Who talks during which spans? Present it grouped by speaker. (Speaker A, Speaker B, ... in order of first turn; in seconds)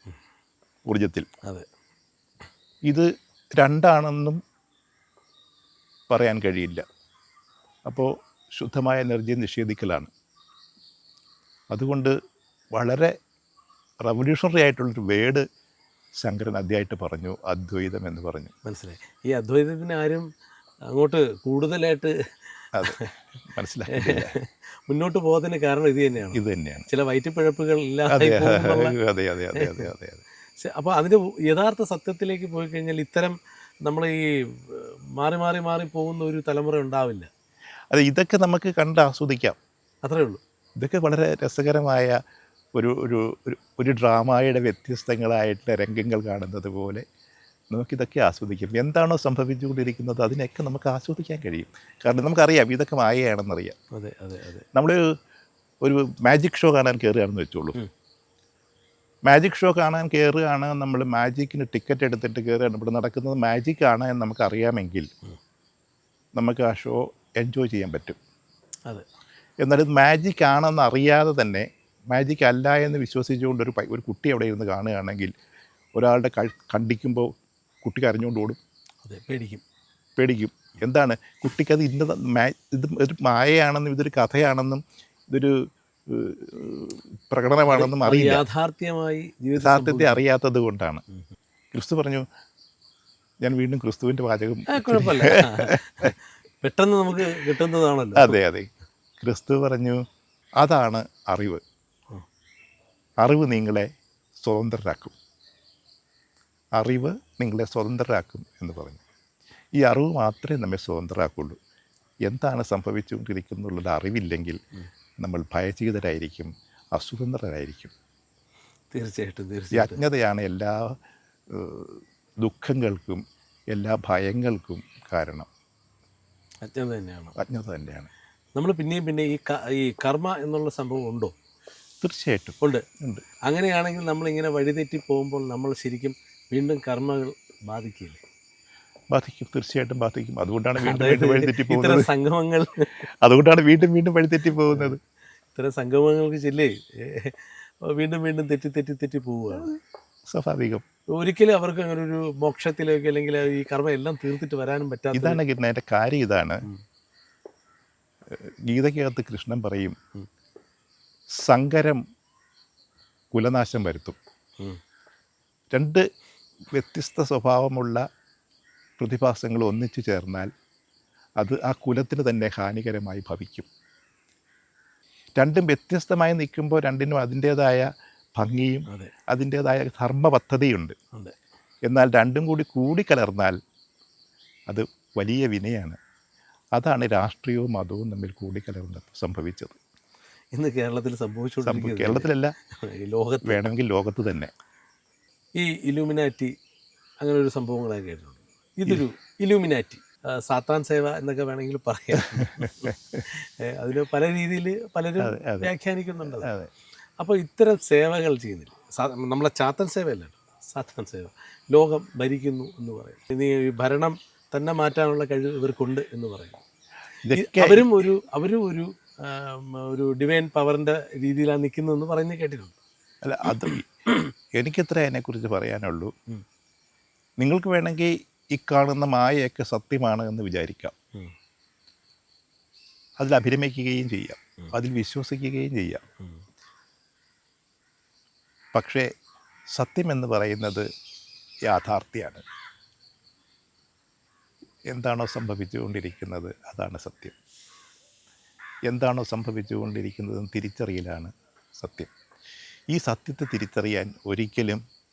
Speaker A: 0.9-1.3, 2.9-4.4, 6.1-6.8, 7.9-10.1, 11.7-12.1, 12.8-13.2, 14.1-15.4, 16.2-18.5, 22.7-24.3, 26.3-26.9, 28.1-30.2, 37.9-39.6, 40.8-42.2, 42.8-47.0, 47.7-53.8, 54.8-55.0, 55.8-57.8, 59.3-65.1, 66.4-68.2, 69.6-75.3, 76.0-77.3, 77.8-78.6, 80.2-85.6, 86.1-88.4, 89.6-91.0, 91.7-92.2, 93.4-96.1, 98.2-98.7, 99.2-100.0, 100.6-101.6, 103.2-103.9, 104.4-105.2, 106.8-109.0, 109.8-111.6, 112.3-114.6, 115.2-117.9, 119.7-121.0, 121.5-125.5, 127.4-128.1, 132.0-133.2, 139.1-142.1, 143.2-145.0, 150.3-150.8, 155.1-156.7, 158.3-160.0, 161.4-162.0, 163.3-164.2, 165.7-166.1, 166.7-168.1, 169.0-170.5, 171.4-173.7, 175.4-180.9, 181.9-183.6, 184.7-186.0, 186.8-189.8, 191.6-192.5, 193.4-194.5, 202.6-203.2, 205.2-205.7, 206.3-206.7, 217.2-217.9, 223.2-223.9, 224.6-226.1, 227.4-230.9, 233.2-236.0, 238.8-239.1, 239.8-240.9, 241.7-242.4, 244.9-247.4, 248.9-252.1, 252.9-254.8
Speaker B: 18.6-20.2, 20.9-22.2, 22.8-23.1, 23.9-28.9, 29.6-29.9, 30.6-37.3, 40.0-40.4, 53.9-54.7, 79.0-79.6, 87.7-90.2, 94.7-98.4, 118.9-120.0, 126.6-127.4, 128.6-131.3, 133.5-138.2, 140.8-143.0, 144.7-145.0, 145.6-149.7, 151.2-155.4, 178.9-179.1, 190.5-193.7, 195.6-196.5, 197.2-206.5, 207.2-216.6, 217.3-222.8